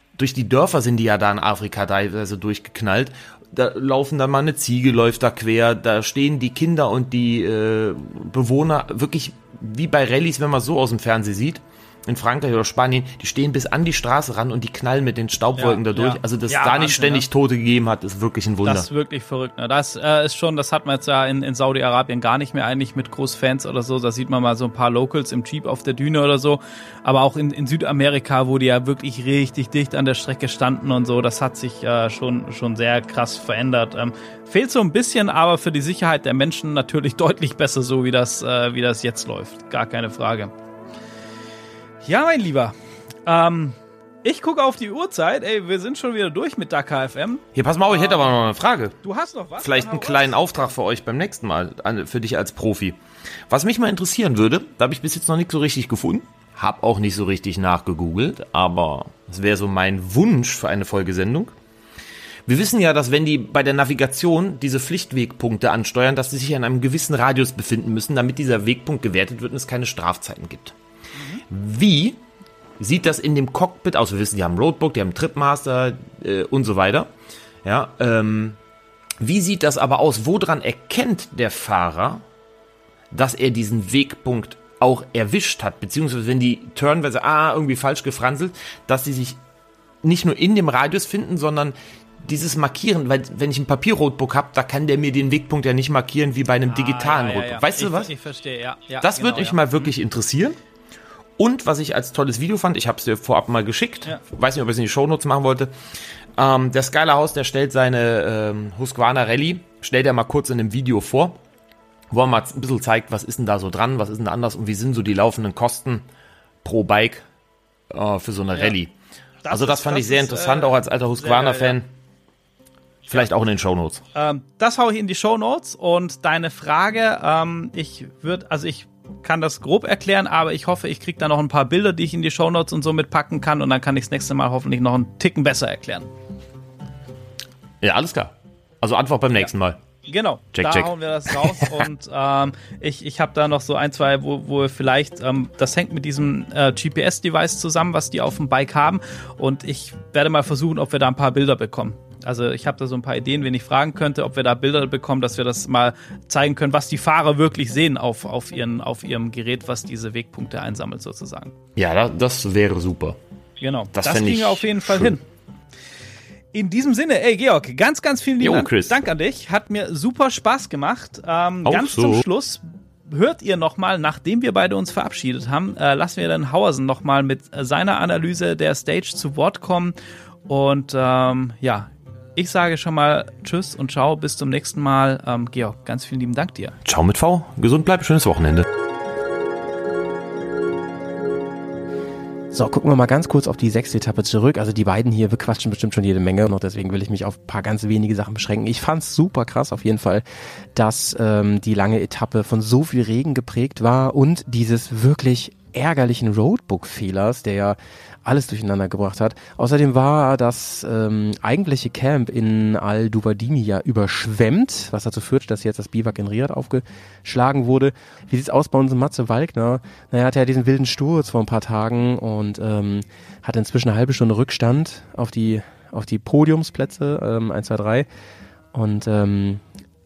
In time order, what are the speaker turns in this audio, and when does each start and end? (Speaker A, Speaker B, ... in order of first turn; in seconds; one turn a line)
Speaker A: 0.2-18.9
Speaker B: 15.6-17.3
Speaker B: 18.6-40.5
Speaker B: 42.0-48.4
Speaker A: 47.5-49.0
Speaker B: 49.0-50.6
Speaker A: 49.6-53.0
Speaker A: 53.5-61.5
Speaker A: 62.5-70.8
Speaker B: 71.2-71.4
Speaker A: 71.5-72.2
Speaker A: 72.8-77.1
Speaker A: 77.6-78.6
Speaker A: 79.2-82.2
Speaker A: 83.1-89.4
Speaker A: 90.0-98.1
Speaker B: 96.7-99.9
Speaker A: 99.0-100.6
Speaker A: 101.4-105.7
Speaker A: 106.4-111.4
Speaker A: 112.1-116.0
Speaker A: 116.6-117.2
Speaker A: 117.9-118.9
Speaker B: 119.5-121.8
Speaker A: 119.5-121.9
Speaker A: 123.1-124.0
Speaker B: 124.2-136.1
Speaker A: 137.8-139.8
Speaker B: 140.1-161.6
Speaker A: 140.5-141.7
Speaker A: 161.8-163.2
Speaker B: 163.6-165.2
Speaker A: 163.9-165.1
Speaker B: 166.5-179.9
Speaker A: 168.4-169.0
Speaker A: 171.7-172.2
Speaker B: 180.5-186.8
Speaker A: 186.8-188.7
Speaker C: 192.5-200.2
Speaker C: 200.8-228.1
Speaker C: 228.7-229.6